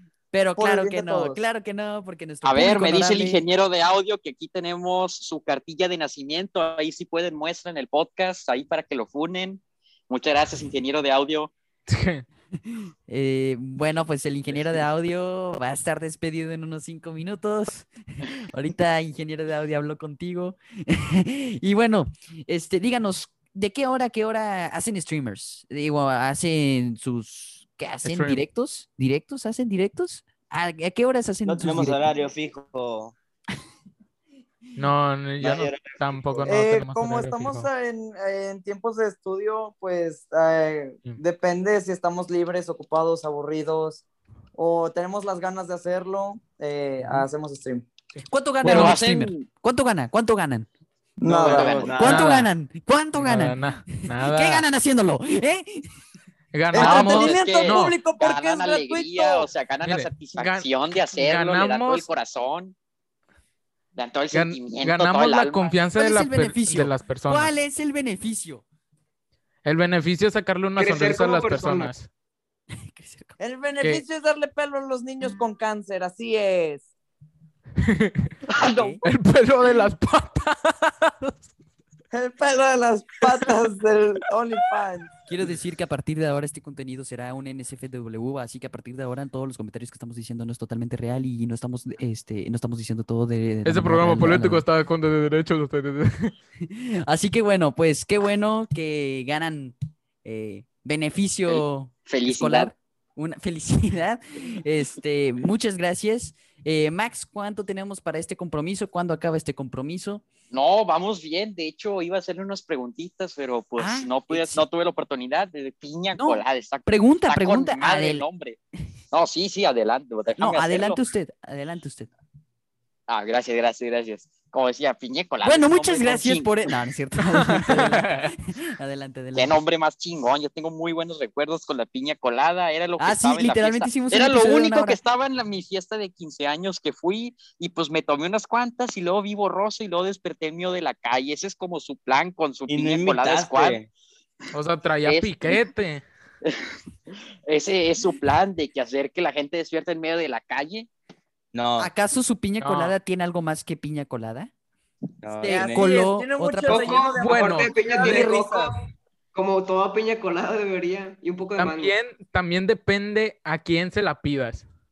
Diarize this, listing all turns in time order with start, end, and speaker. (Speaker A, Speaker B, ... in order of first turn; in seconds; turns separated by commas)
Speaker A: 0.3-3.4, Speaker B: 0.6-1.4, Speaker C: 2.4-11.5, Speaker D: 11.9-12.2, Speaker A: 12.7-32.1, Speaker D: 28.0-28.5, Speaker E: 31.4-33.1, Speaker D: 34.8-37.7, Speaker E: 35.4-36.6, Speaker B: 36.4-44.0, Speaker B: 44.5-47.9, Speaker D: 48.1-48.9, Speaker A: 48.3-50.7, Speaker C: 48.6-49.5, Speaker B: 51.2-52.0, Speaker E: 51.2-52.3, Speaker C: 51.4-52.0, Speaker A: 51.9-55.9, Speaker D: 52.0-52.5, Speaker D: 53.1-54.7, Speaker D: 56.5-58.0, Speaker B: 56.7-59.5, Speaker C: 56.8-62.7, Speaker D: 59.8-62.1, Speaker C: 64.0-65.8, Speaker D: 64.3-67.5, Speaker A: 65.9-68.6, Speaker D: 69.6-72.1, Speaker F: 70.8-71.9, Speaker A: 72.8-73.4, Speaker B: 73.4-76.8, Speaker B: 78.5-79.0, Speaker A: 78.6-79.0, Speaker D: 79.0-81.3, Speaker B: 82.1-85.1, Speaker A: 85.3-94.6, Speaker D: 93.6-96.3, Speaker A: 96.7-110.2, Speaker C: 101.5-102.7, Speaker C: 110.5-118.6, Speaker A: 113.8-114.6, Speaker A: 116.1-118.2, Speaker C: 119.1-121.0, Speaker A: 120.4-122.1, Speaker C: 123.1-126.7, Speaker A: 125.4-129.6, Speaker D: 127.2-128.3, Speaker C: 129.3-143.8, Speaker A: 133.0-135.0, Speaker E: 142.7-143.9, Speaker D: 144.5-146.0, Speaker C: 145.1-145.6, Speaker C: 147.5-150.9, Speaker E: 151.5-151.9, Speaker A: 151.8-154.5, Speaker D: 152.6-152.9, Speaker E: 155.2-156.0, Speaker A: 155.4-157.1, Speaker B: 155.4-158.7, Speaker F: 156.7-158.8, Speaker D: 157.1-158.3, Speaker F: 159.3-161.9, Speaker D: 161.6-164.7